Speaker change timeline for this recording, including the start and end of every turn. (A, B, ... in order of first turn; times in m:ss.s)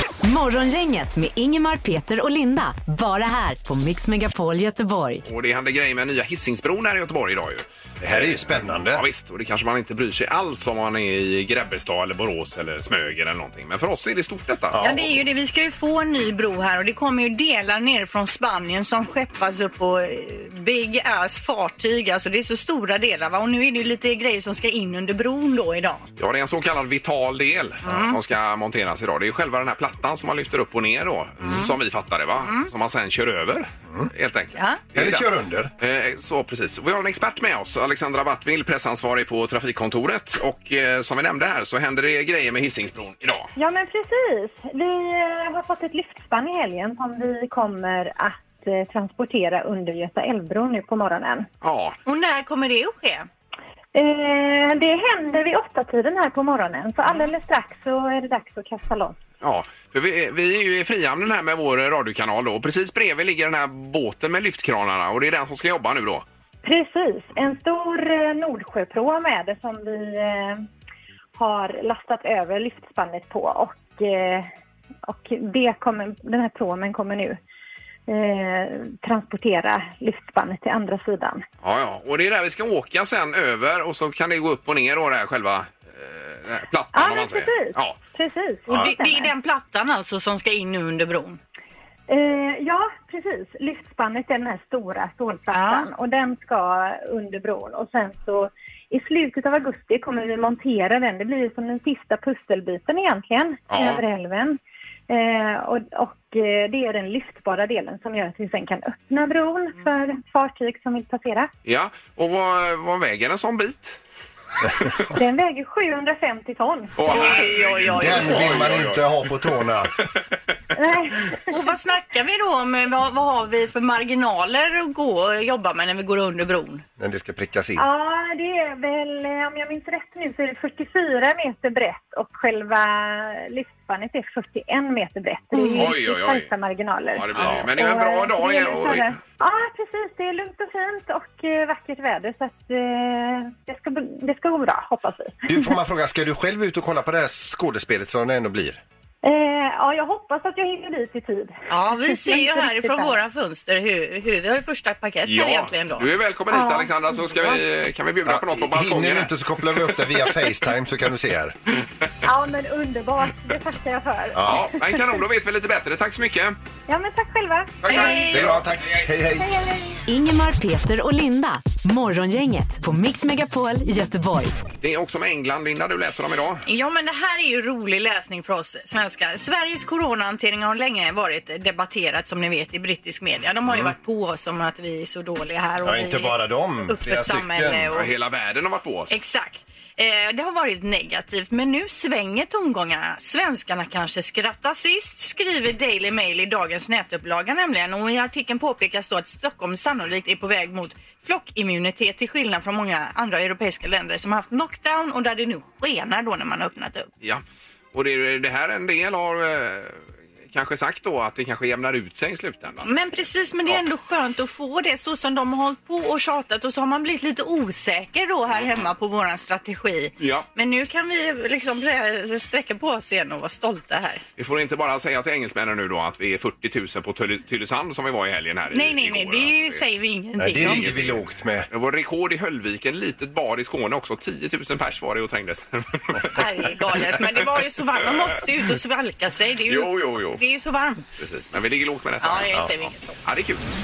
0:00.2-0:05.2 A
0:05.2-0:14.8 B
0:08.0-0:09.0 C
0:14.7-0:15.1 C
0:14.8-0:26.0 D
0:26.2-0:35.2 B
0:27.8-0:28.2 D
0:31.4-0:31.7 D
0:32.4-0:32.7 D
0:34.9-0:35.7 C
0:35.8-0:43.5 B
0:43.6-0:51.5 E
0:51.6-0:52.0 B
0:52.0-0:53.3 D
0:53.9-0:59.2 E
0:59.4-1:06.2 B
1:06.6-1:10.6 E
1:11.4-1:14.5 E
1:15.0-1:17.4 E
1:18.1-1:21.4 E
1:21.6-1:28.0 B
1:26.9-1:29.3 E
1:28.7-1:31.4 D
1:32.1-1:51.5 E
1:35.5-1:35.9 D
1:43.7-1:44.0 B
1:51.6-1:54.0 B
1:55.1-1:57.0 E
1:57.0-1:59.2 B
1:57.0-1:58.8 D
1:57.9-1:59.9 C
2:00.8-2:01.4 E
2:01.5-2:06.8 D
2:07.0-2:07.8 C
2:07.8-2:25.7 E
2:15.6-2:15.8 D
2:15.7-2:16.5 B
2:17.1-2:19.1 B
2:17.4-2:17.6 C
2:25.5-2:28.8 C
2:29.2-2:33.2 E
2:31.7-2:36.1 D
2:35.2-2:39.4 B
2:36.5-2:37.6 E
2:38.2-2:41.6 C
2:42.2-2:45.2 E
2:44.3-2:44.7 C
2:44.4-2:46.6 B
2:46.9-2:48.4 E
2:47.8-2:49.1 B
2:47.9-2:48.5 D
2:47.9-2:49.5 C
2:49.4-2:50.0 E
2:50.1-2:54.5 A
2:54.8-2:56.6 B
2:56.6-3:08.1 D
3:03.7-3:03.9 C
3:05.8-3:08.0 C
3:07.9-3:09.2 B
3:09.1-3:27.1 D
3:27.2-3:32.9 B
3:32.8-3:44.2 D
3:38.5-3:38.9 B
3:40.2-3:40.4 B
3:44.4-3:49.8 B
3:48.7-3:51.0 D
3:50.4-3:51.7 C
3:50.6-3:57.2 B
3:56.3-4:01.1 D
3:59.7-4:00.4 B
4:01.2-4:03.6 B
4:02.2-4:03.2 D